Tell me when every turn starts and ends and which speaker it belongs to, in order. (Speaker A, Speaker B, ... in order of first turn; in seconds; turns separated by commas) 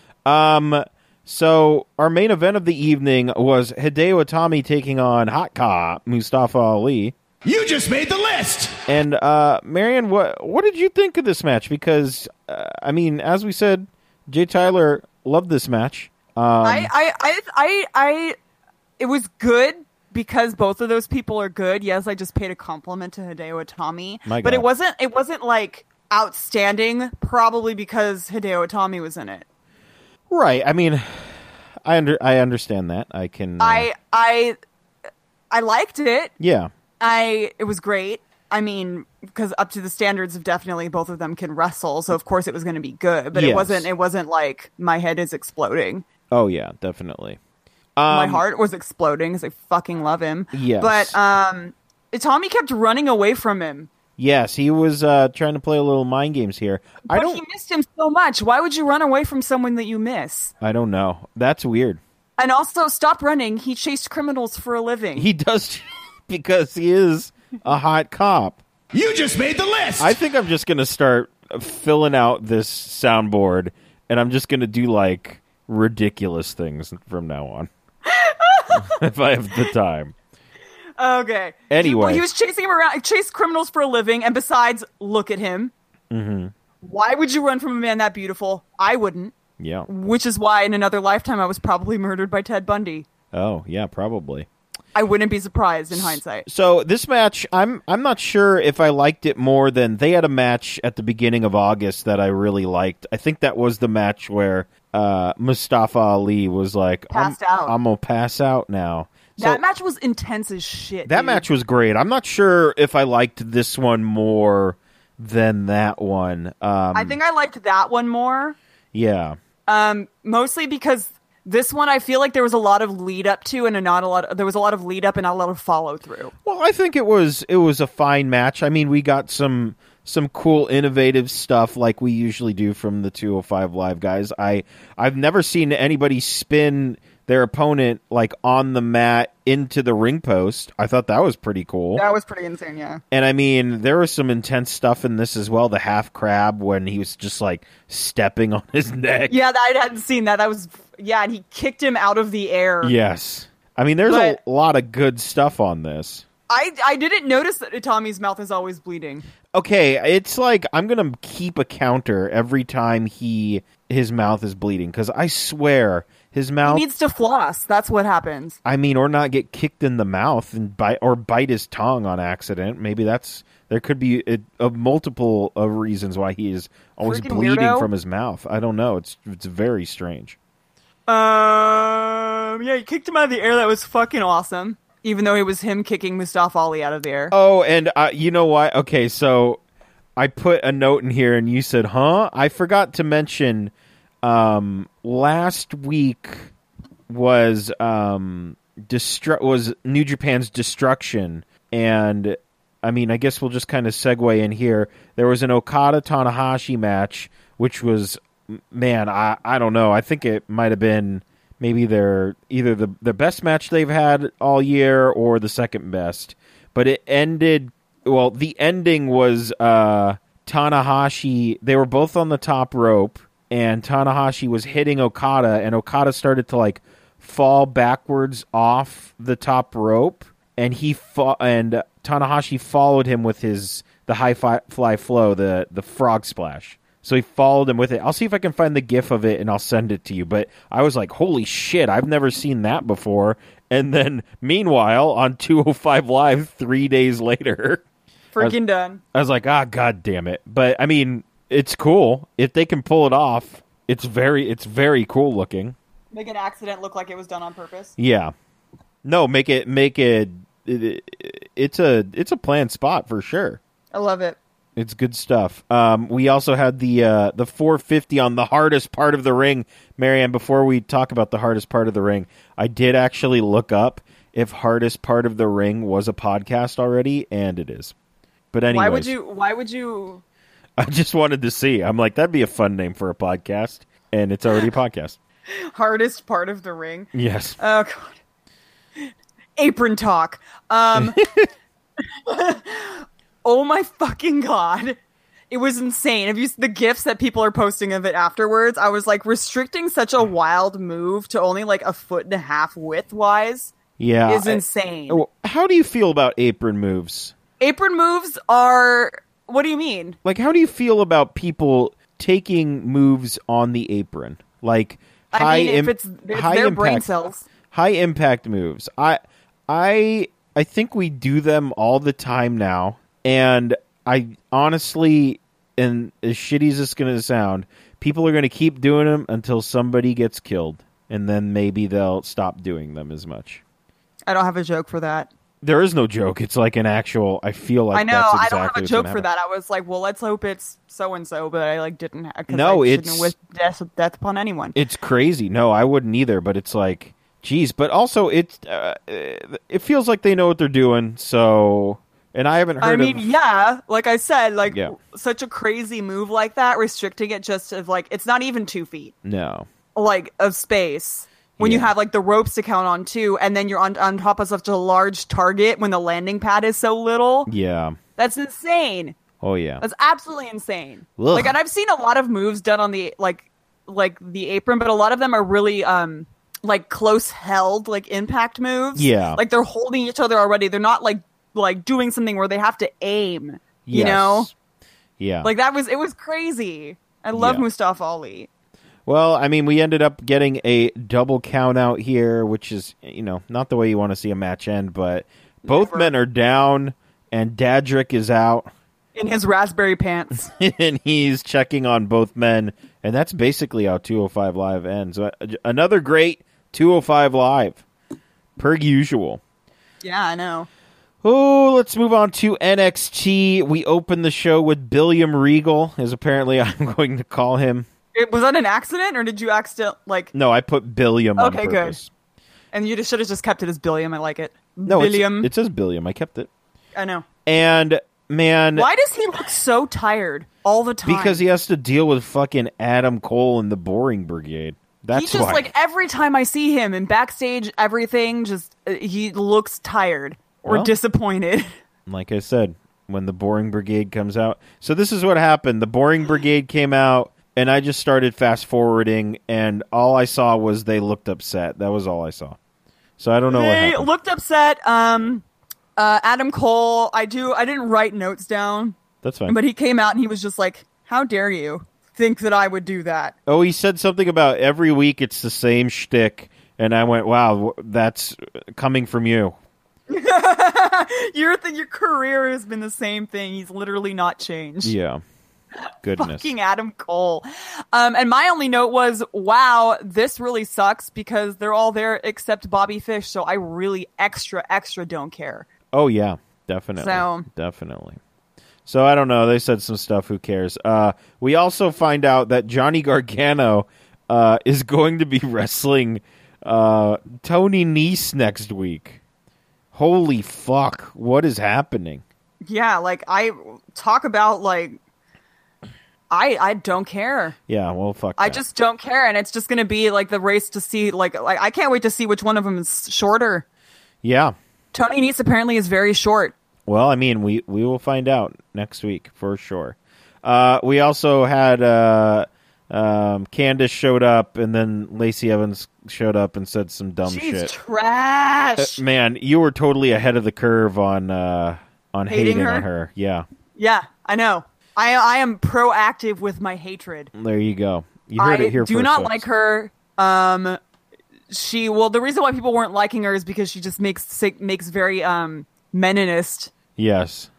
Speaker A: 0.2-7.1, Speaker B: 7.4-8.8, Speaker A: 8.9-16.9, Speaker C: 16.6-18.4, Speaker C: 19.0-29.4, Speaker A: 24.2-24.6, Speaker A: 30.3-33.9, Speaker C: 33.6-34.5, Speaker C: 35.5-36.3, Speaker A: 36.4-36.7, Speaker C: 37.0-46.0, Speaker A: 43.3-43.9, Speaker A: 46.3-47.4, Speaker A: 48.0-48.4, Speaker C: 48.1-53.9, Speaker A: 50.5-51.1, Speaker A: 54.2-57.4, Speaker C: 57.1-60.5, Speaker A: 60.6-62.0, Speaker C: 62.4-65.3, Speaker A: 65.2-68.6, Speaker B: 68.9-70.1, Speaker A: 70.0-77.7, Speaker C: 78.0-78.9, Speaker A: 78.7-80.1, Speaker C: 81.0-85.7, Speaker A: 81.7-82.2, Speaker A: 86.1-86.5, Speaker C: 86.8-89.3, Speaker A: 89.6-89.9, Speaker C: 89.8-93.1, Speaker A: 93.3-94.5, Speaker C: 94.9-96.5, Speaker A: 95.9-109.6, Speaker C: 107.1-107.8, Speaker C: 109.4-111.5, Speaker A: 111.0-117.2, Speaker C: 116.9-118.6, Speaker A: 118.9-119.4, Speaker C: 119.7-126.3, Speaker A: 126.4-142.0, Speaker C: 141.9-143.0, Speaker A: 143.1-149.3, Speaker C: 149.3-152.9, Speaker A: 152.8-156.2, Speaker C: 154.1-154.4, Speaker C: 156.5-159.2, Speaker A: 159.5-166.8, Speaker C: 166.6-168.6, Speaker A: 168.6-180.4, Speaker C: 177.0-177.9, Speaker C: 181.1-187.3, Speaker A: 187.3-189.6, Speaker A: 190.2-193.7, Speaker A: 194.2-196.5, Speaker A: 197.1-247.8, Speaker C: 248.3-249.0, Speaker A: 249.1-255.8, Speaker C: 256.1-257.9, Speaker A: 258.0-258.3, Speaker A: 259.0-263.6, Speaker C: 263.9-264.4, Speaker A: 264.8-277.9, Speaker A: 278.5-279.1, Speaker C: 278.7-280.2, Speaker A: 280.8-285.2, Speaker C: 285.5-288.1, Speaker A: 287.1-287.6, Speaker C: 289.0-291.2, Speaker A: 290.9-291.5, Speaker C: 292.0-295.0, Speaker C: 295.5-303.7, Speaker A: 304.0-307.3, Speaker C: 304.3-305.2, Speaker C: 307.6-310.2, Speaker A: 310.2-317.1, Speaker C: 315.3-317.4, Speaker A: 317.7-333.6, Speaker C: 334.3-335.3, Speaker A: 335.6-339.3, Speaker C: 337.9-344.8, Speaker A: 342.5-343.3, Speaker A: 344.7-353.3, Speaker C: 352.8-359.1, Speaker A: 354.7-354.9, Speaker A: 359.2-359.7, Speaker C: 359.9-367.5, Speaker A: 361.6-361.9, Speaker A: 367.5-368.0, Speaker C: 368.2-369.1, Speaker A: 369.4-369.8, Speaker C: 369.8-384.5, Speaker A: 371.2-371.5, Speaker A: 378.9-379.4, Speaker A: 383.9-384.5, Speaker A: 385.2-385.5, Speaker C: 385.4-388.5, Speaker A: 387.3-387.6, Speaker A: 389.1-398.7, Speaker C: 395.6-396.1, Speaker C: 399.1-400.5, Speaker A: 400.5-407.8, Speaker A: 408.6-409.4, Speaker C: 410.0-410.7, Speaker A: 411.2-417.9, Speaker C: 418.1-420.3, Speaker A: 420.3-422.1, Speaker C: 421.4-422.0, Speaker C: 422.7-425.5, Speaker A: 424.9-426.5, Speaker C: 426.9-427.2, Speaker A: 427.4-428.9, Speaker C: 428.7-431.4, Speaker A: 431.0-435.7, Speaker C: 435.1-441.7, Speaker A: 440.6-440.9, Speaker A: 442.1-452.6, Speaker A: 453.2-454.1, Speaker C: 453.5-455.4, Speaker C: 456.0-463.3, Speaker A: 459.2-459.6, Speaker A: 463.5-469.6, Speaker C: 470.1-474.9, Speaker A: 474.8-475.2, Speaker A: 476.0-476.5, Speaker C: 476.1-485.7, Speaker A: 485.9-488.2, Speaker C: 487.0-487.5, Speaker A: 488.9-499.2, Speaker A: 499.9-502.2, Speaker C: 502.6-505.0, Speaker C: 506.3-507.6, Speaker A: 507.7-508.6, Speaker C: 508.4-513.6, Speaker A: 514.2-514.5, Speaker C: 514.9-516.5, Speaker A: 516.9-527.7, Speaker C: 527.2-529.0, Speaker A: 528.8-533.5, Speaker C: 532.3-532.9, Speaker C: 533.8-537.3, Speaker A: 537.3-539.4, Speaker C: 538.4-540.8, Speaker C: 541.5-546.7, Speaker A: 547.0-547.5